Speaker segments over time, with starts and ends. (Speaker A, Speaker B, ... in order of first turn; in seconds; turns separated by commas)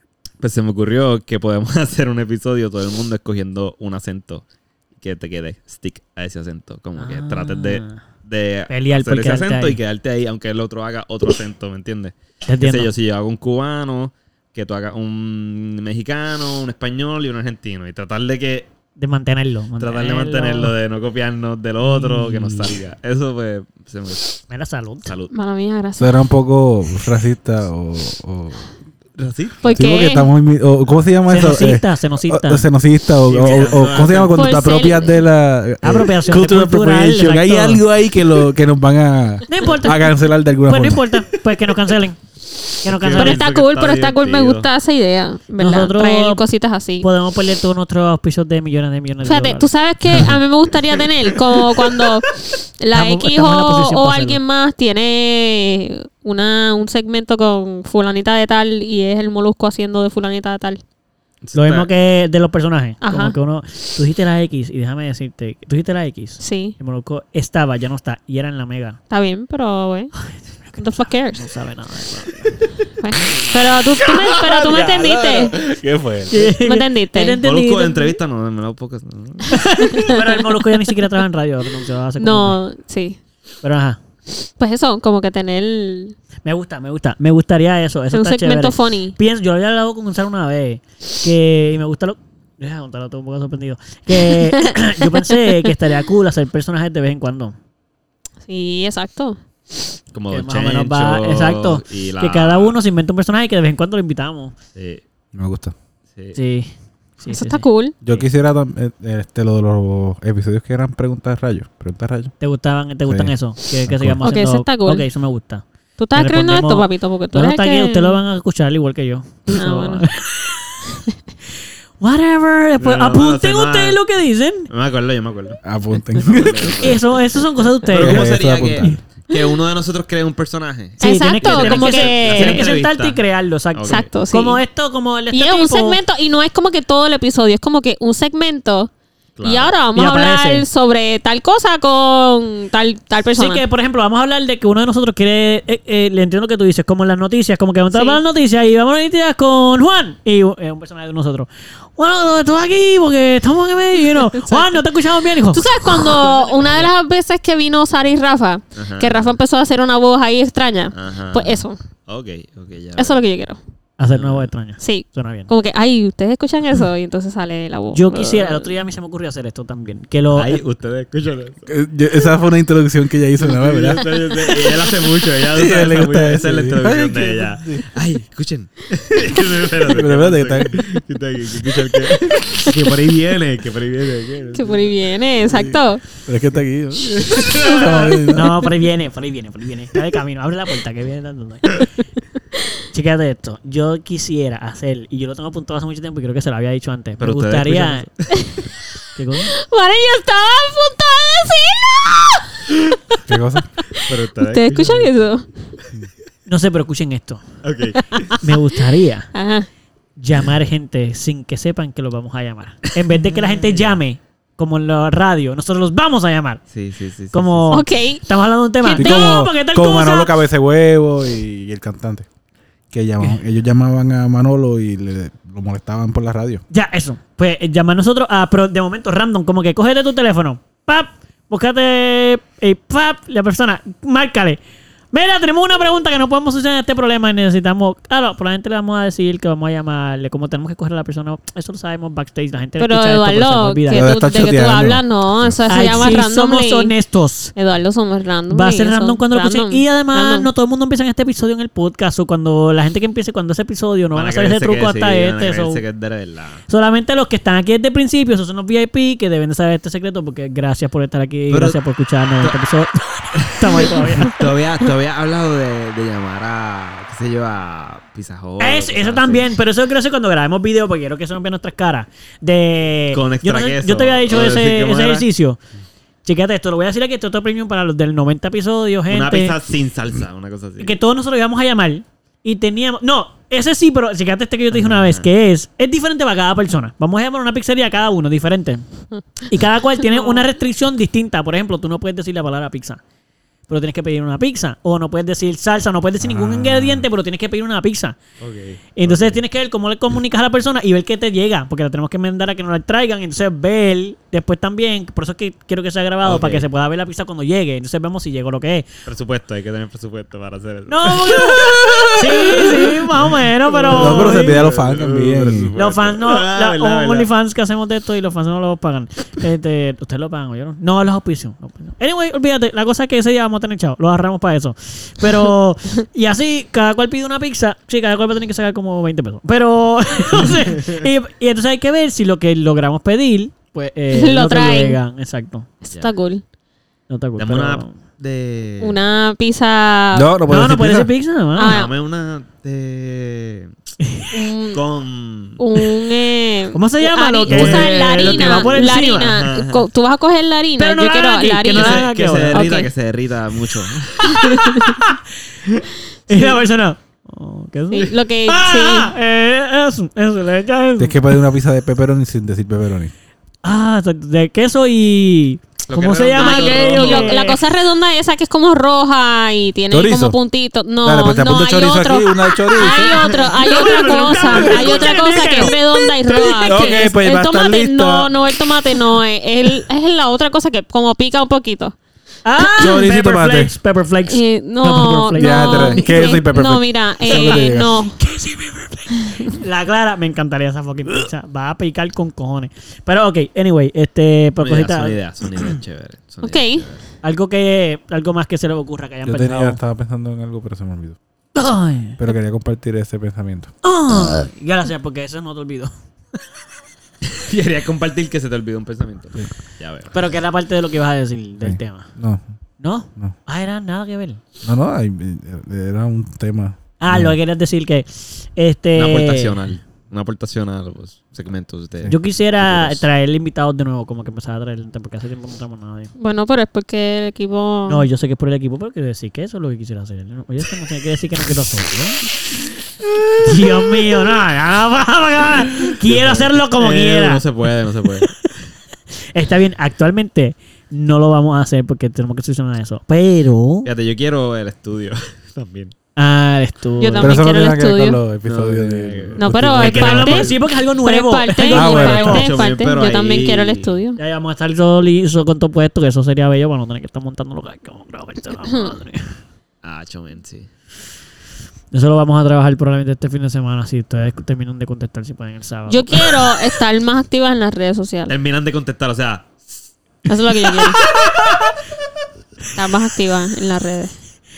Speaker A: 0.4-4.4, Speaker A: 5.0-18.7, Speaker B: 7.0-8.0, Speaker B: 8.7-9.8, Speaker B: 12.4-12.9, Speaker B: 19.0-20.8, Speaker A: 19.8-24.4, Speaker B: 21.9-22.6, Speaker B: 24.5-25.1, Speaker A: 25.0-25.3, Speaker C: 25.3-26.2, Speaker D: 26.0-28.7, Speaker A: 29.2-29.6, Speaker C: 29.6-30.3, Speaker D: 29.7-41.0, Speaker B: 31.3-32.7, Speaker A: 33.2-34.5, Speaker C: 34.3-35.2, Speaker B: 35.8-37.8, Speaker B: 39.5-42.2, Speaker B: 42.8-43.4, Speaker A: 42.8-44.7, Speaker C: 43.1-47.1, Speaker B: 45.6-46.4, Speaker B: 47.0-50.3, Speaker C: 49.2-60.8, Speaker B: 52.9-54.4, Speaker A: 61.4-61.9, Speaker B: 61.5-69.0, Speaker C: 63.0-63.4, Speaker C: 66.4-66.8, Speaker C: 69.1-70.1, Speaker B: 70.2-72.7, Speaker C: 70.8-71.5, Speaker C: 73.0-75.5, Speaker D: 74.0-76.5, Speaker B: 76.3-78.2, Speaker C: 76.5-77.4, Speaker A: 77.4-79.6, Speaker B: 79.5-82.6, Speaker C: 79.8-80.5, Speaker C: 82.2-83.2, Speaker B: 83.6-84.0, Speaker C: 84.6-86.2, Speaker B: 86.4-97.5, Speaker C: 88.1-89.2, Speaker C: 94.4-94.7, Speaker C: 98.5-99.4, Speaker A: 100.1-102.8, Speaker B: 100.3-104.5, Speaker A: 104.8-105.0, Speaker D: 105.3-105.7, Speaker B: 106.3-108.3, Speaker C: 107.3-107.9, Speaker D: 108.0-112.3, Speaker B: 112.4-115.6, Speaker D: 113.0-114.2, Speaker C: 114.2-115.0, Speaker C: 116.0-118.2, Speaker B: 116.1-121.0, Speaker C: 119.5-120.1, Speaker B: 122.0-124.7, Speaker A: 122.8-124.0, Speaker A: 124.7-127.1, Speaker D: 125.6-127.0, Speaker B: 126.8-128.4, Speaker A: 127.8-133.2, Speaker D: 127.9-129.0, Speaker C: 131.0-132.7, Speaker B: 131.0-136.0, Speaker A: 133.7-134.0, Speaker C: 133.9-134.6, Speaker C: 135.3-138.9, Speaker A: 139.4-139.8, Speaker C: 139.4-143.6, Speaker B: 139.9-140.7, Speaker B: 143.3-156.3, Speaker C: 147.9-148.2, Speaker C: 154.4-154.7, Speaker C: 155.5-161.8, Speaker A: 156.3-156.9, Speaker A: 158.7-159.4, Speaker A: 160.9-163.2, Speaker C: 163.0-163.6, Speaker B: 164.0-165.5, Speaker A: 164.1-164.5, Speaker C: 164.8-168.7, Speaker B: 167.9-170.6, Speaker A: 170.3-171.7, Speaker D: 171.7-174.7, Speaker A: 173.4-184.9, Speaker D: 175.5-177.8, Speaker D: 179.8-180.9, Speaker C: 184.5-186.0, Speaker D: 186.2-188.7, Speaker A: 187.1-187.9, Speaker C: 187.8-188.1, Speaker B: 188.3-191.8, Speaker B: 192.9-198.1, Speaker A: 197.2-198.6, Speaker B: 199.2-199.5, Speaker C: 199.5-203.2, Speaker D: 203.3-203.7, Speaker C: 203.8-205.5, Speaker A: 204.0-205.1, Speaker B: 206.5-207.4, Speaker A: 207.6-208.3, Speaker B: 208.4-209.3, Speaker C: 209.3-209.7, Speaker B: 210.2-216.6, Speaker A: 213.2-213.9, Speaker A: 216.7-217.8, Speaker B: 217.3-220.3, Speaker C: 217.7-218.2, Speaker C: 218.8-219.4, Speaker D: 218.9-222.3, Speaker D: 222.9-226.6, Speaker B: 226.7-234.6, Speaker B: 235.1-244.3, Speaker C: 242.8-246.9, Speaker D: 243.9-245.0, Speaker B: 245.7-247.5, Speaker C: 247.6-250.5, Speaker B: 248.5-255.8, Speaker A: 254.1-256.6, Speaker B: 256.7-264.4, Speaker A: 261.5-261.8, Speaker A: 263.3-269.5, Speaker B: 268.6-275.6, Speaker A: 273.1-275.2, Speaker B: 276.2-279.6, Speaker A: 279.1-281.0, Speaker B: 280.8-288.8, Speaker A: 284.7-285.3, Speaker B: 289.4-293.0, Speaker C: 290.1-290.4, Speaker B: 293.7-298.2, Speaker D: 296.2-297.0, Speaker A: 298.4-299.4, Speaker B: 298.9-308.9, Speaker A: 306.2-306.7, Speaker A: 309.1-317.3, Speaker B: 310.9-314.6, Speaker D: 313.9-315.7, Speaker B: 315.7-335.7, Speaker A: 330.4-331.0, Speaker C: 334.1-335.0, Speaker C: 335.8-336.4, Speaker B: 337.1-337.9, Speaker A: 337.4-339.0, Speaker C: 338.8-340.3, Speaker D: 340.1-341.1, Speaker B: 340.5-341.8, Speaker C: 341.6-341.9, Speaker A: 341.6-343.7, Speaker B: 344.0-344.3, Speaker C: 344.3-344.8, Speaker A: 344.7-345.6, Speaker C: 345.6-352.9, Speaker B: 346.7-349.4, Speaker D: 347.5-347.9, Speaker A: 347.6-349.8, Speaker B: 350.8-352.7, Speaker A: 351.7-354.6, Speaker C: 354.2-355.0, Speaker B: 354.3-355.2, Speaker B: 356.3-361.2, Speaker C: 357.9-359.1, Speaker D: 361.0-363.1, Speaker B: 363.6-367.6, Speaker A: 365.9-367.4, Speaker C: 366.4-381.9, Speaker D: 369.9-370.4, Speaker D: 371.0-373.5, Speaker B: 373.3-376.9, Speaker D: 374.5-374.8, Speaker A: 374.8-375.1, Speaker D: 376.6-378.3, Speaker B: 382.4-386.4, Speaker D: 382.7-383.7, Speaker C: 384.3-388.2, Speaker D: 385.3-388.0, Speaker B: 387.3-395.6, Speaker C: 389.2-389.6, Speaker A: 394.6-397.0, Speaker C: 396.4-396.9, Speaker B: 397.2-399.8, Speaker D: 399.2-401.2, Speaker B: 401.5-402.2, Speaker D: 402.2-403.7, Speaker B: 403.8-406.4, Speaker A: 407.3-410.1, Speaker B: 410.1-412.1, Speaker D: 411.6-412.4, Speaker B: 412.8-414.4, Speaker D: 414.6-417.4, Speaker B: 417.0-419.6, Speaker A: 418.9-423.0, Speaker B: 422.1-426.1, Speaker C: 426.2-428.0, Speaker B: 427.9-432.2, Speaker B: 433.4-437.4, Speaker A: 435.8-438.4, Speaker B: 439.3-443.9, Speaker A: 443.8-445.9, Speaker B: 446.1-447.4, Speaker C: 447.0-448.2, Speaker D: 447.2-450.5, Speaker A: 448.4-449.6, Speaker C: 449.4-454.2, Speaker B: 449.8-452.6, Speaker D: 451.7-452.5, Speaker A: 452.2-454.0, Speaker B: 454.2-459.4, Speaker A: 459.8-460.7, Speaker B: 461.9-466.5, Speaker C: 465.9-468.3, Speaker A: 468.3-469.6, Speaker C: 470.3-471.0, Speaker B: 470.8-471.8, Speaker C: 472.7-474.1